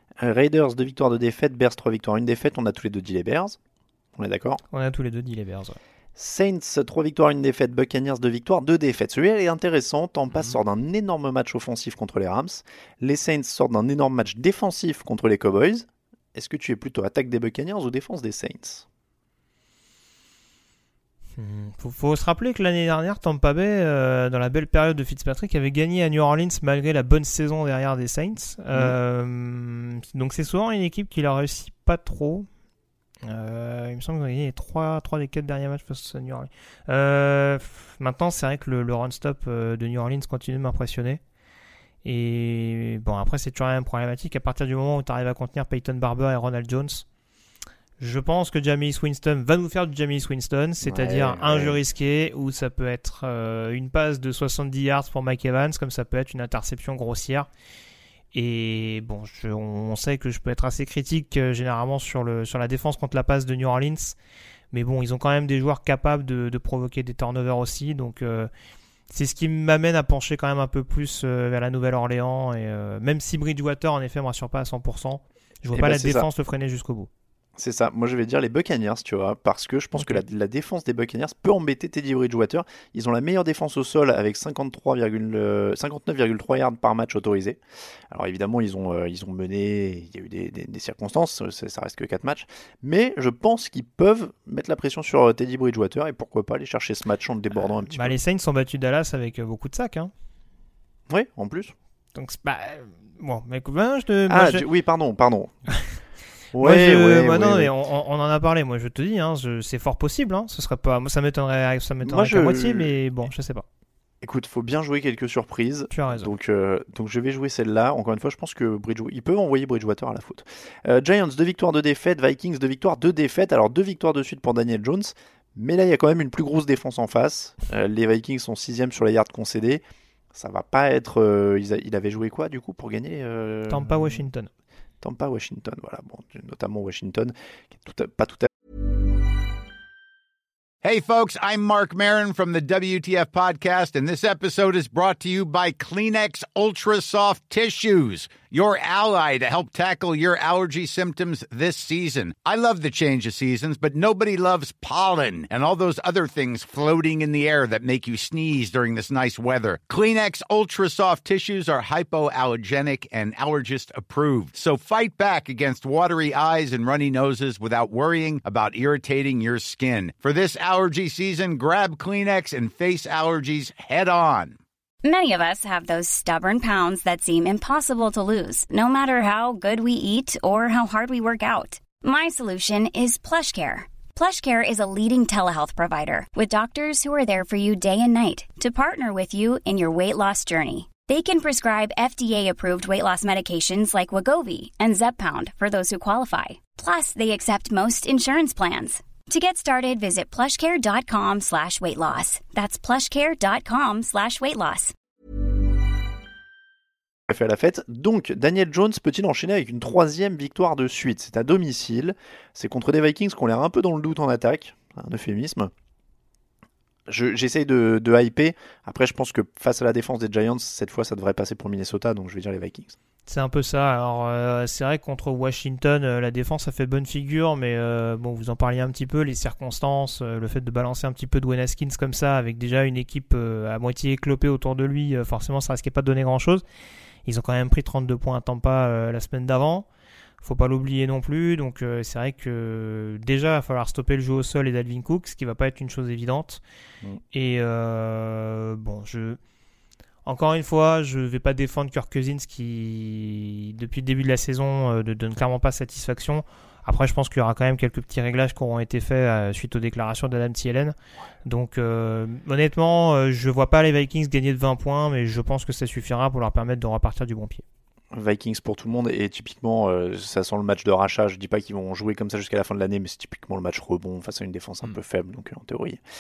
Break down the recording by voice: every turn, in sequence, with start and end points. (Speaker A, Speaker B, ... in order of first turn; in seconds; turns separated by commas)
Speaker A: 0.2-3.6, Speaker A: 4.2-4.6, Speaker B: 4.7-5.8, Speaker A: 6.2-18.9, Speaker B: 21.4-32.5, Speaker B: 33.2-41.2, Speaker B: 42.0-47.0, Speaker B: 48.0-57.5, Speaker A: 50.8-51.8, Speaker B: 58.3-64.2, Speaker B: 64.7-68.5, Speaker B: 69.1-77.1, Speaker A: 75.7-76.3, Speaker A: 77.6-87.6, Speaker B: 80.0-80.2, Speaker A: 88.1-98.2, Speaker B: 97.9-100.1, Speaker A: 101.1-101.7, Speaker B: 102.2-104.7, Speaker A: 104.3-105.5, Speaker A: 106.5-107.7, Speaker B: 106.6-113.7, Speaker A: 112.0-113.0, Speaker A: 114.2-134.2, Speaker B: 115.9-116.3, Speaker B: 133.7-134.5, Speaker A: 135.0-138.5, Speaker C: 140.8-174.6, Speaker D: 175.0-204.9, Speaker A: 207.3-215.7, Speaker A: 217.1-223.0, Speaker B: 223.3-236.6, Speaker B: 237.3-239.9, Speaker B: 240.4-246.6, Speaker B: 247.3-249.4, Speaker B: 250.2-267.6, Speaker A: 268.1-276.0